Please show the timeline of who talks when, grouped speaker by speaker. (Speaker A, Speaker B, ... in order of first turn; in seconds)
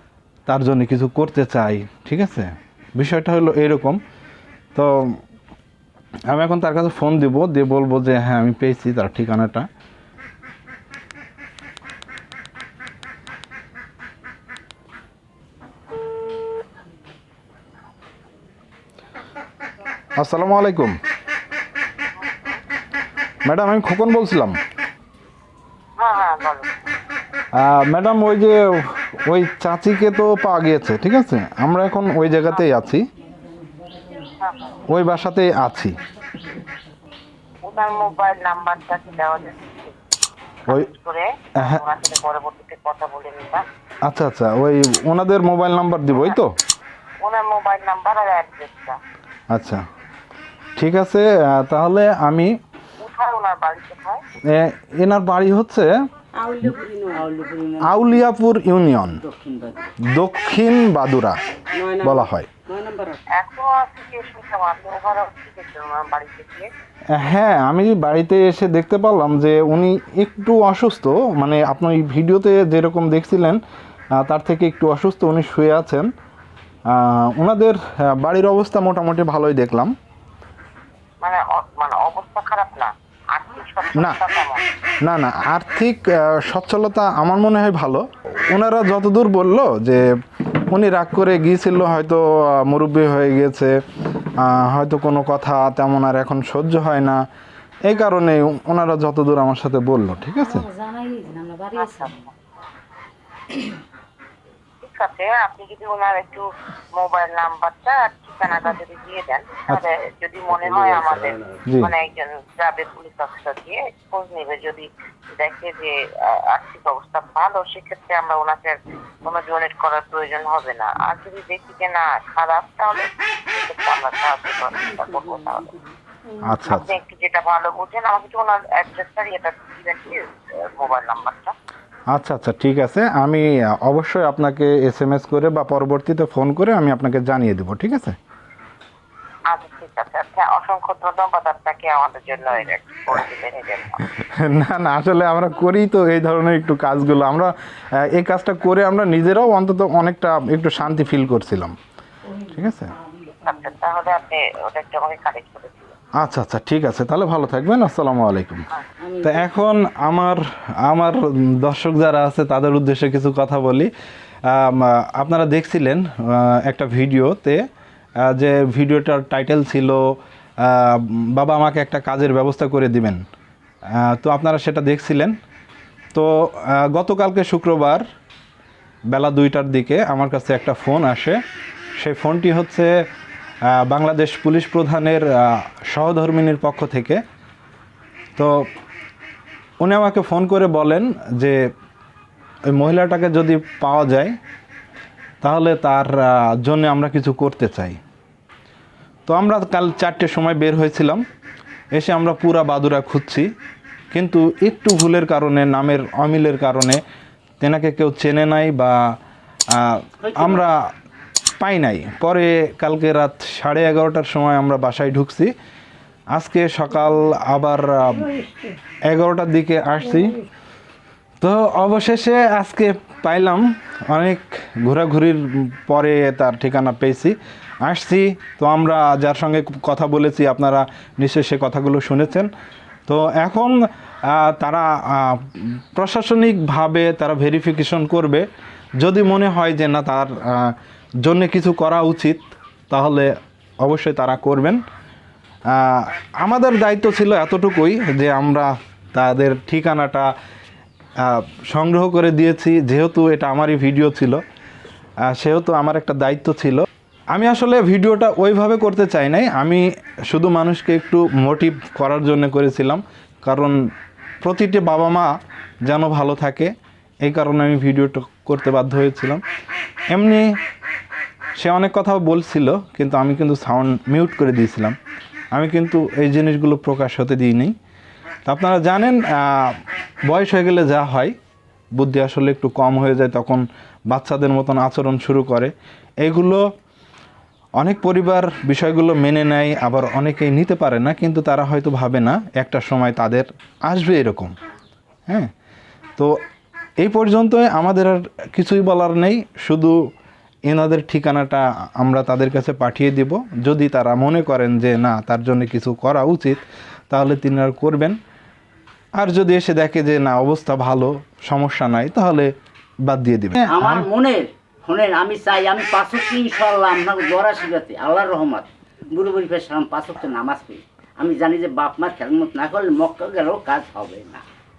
Speaker A: 0.5-4.0, 4.8-5.2, 6.3-9.7, 20.2-21.0, 23.4-24.6, 27.5-33.0, 34.9-36.0, 44.0-46.5, 49.5-49.9, 50.8-52.5, 54.5-56.0, 57.8-59.2, 60.0-61.4, 62.0-62.5, 67.1-73.6, 74.2-76.1, 76.9-79.9, 85.0-90.0, 90.7-93.8, 94.4-97.2, 97.8-100.7, 111.7-111.9, 126.4-126.9, 132.1-138.2, 144.0-151.8, 152.3-153.0, 156.2-158.7, 159.2-163.9, 164.5-167.6, 168.2-173.2, 173.9-175.4, 176.1-178.0, 179.1-181.4, 182.0-182.9, 183.7-187.2, 188.4-188.7, 189.8-191.6, 192.7-194.3, 195.4-198.0, 199.3-201.2, 201.9-203.5, 204.1-207.0, 207.6-209.2, 209.7-210.9, 211.6-215.5, 216.3-218.4, 219.1-220.4, 221.4-232.5, 233.1-238.4, 239.0-243.3, 243.8-244.8, 245.7-250.3, 251.2-254.4, 255.2-263.8, 264.4-265.3, 265.8-269.4, 270.1-270.5, 271.6-275.0, 275.5-277.8, 278.5-281.4, 282.0-286.6, 287.8-294.6, 297.0-300.0, 300.7-308.2, 309.2-312.5, 313.1-314.1
Speaker B: 26.0-26.7, 34.4-34.8, 37.6-39.9, 40.7-43.6, 47.2-49.0, 53.0-54.2, 63.3-66.7, 81.2-84.6, 101.7-102.3, 104.8-125.8, 126.6-131.6, 139.5-144.1, 153.2-155.9
Speaker C: 56.5-58.2, 59.2-60.0, 110.8-111.6, 159.0-159.5, 210.2-210.7, 313.7-324.4
Speaker D: 61.8-62.1, 62.7-63.1, 100.7-101.7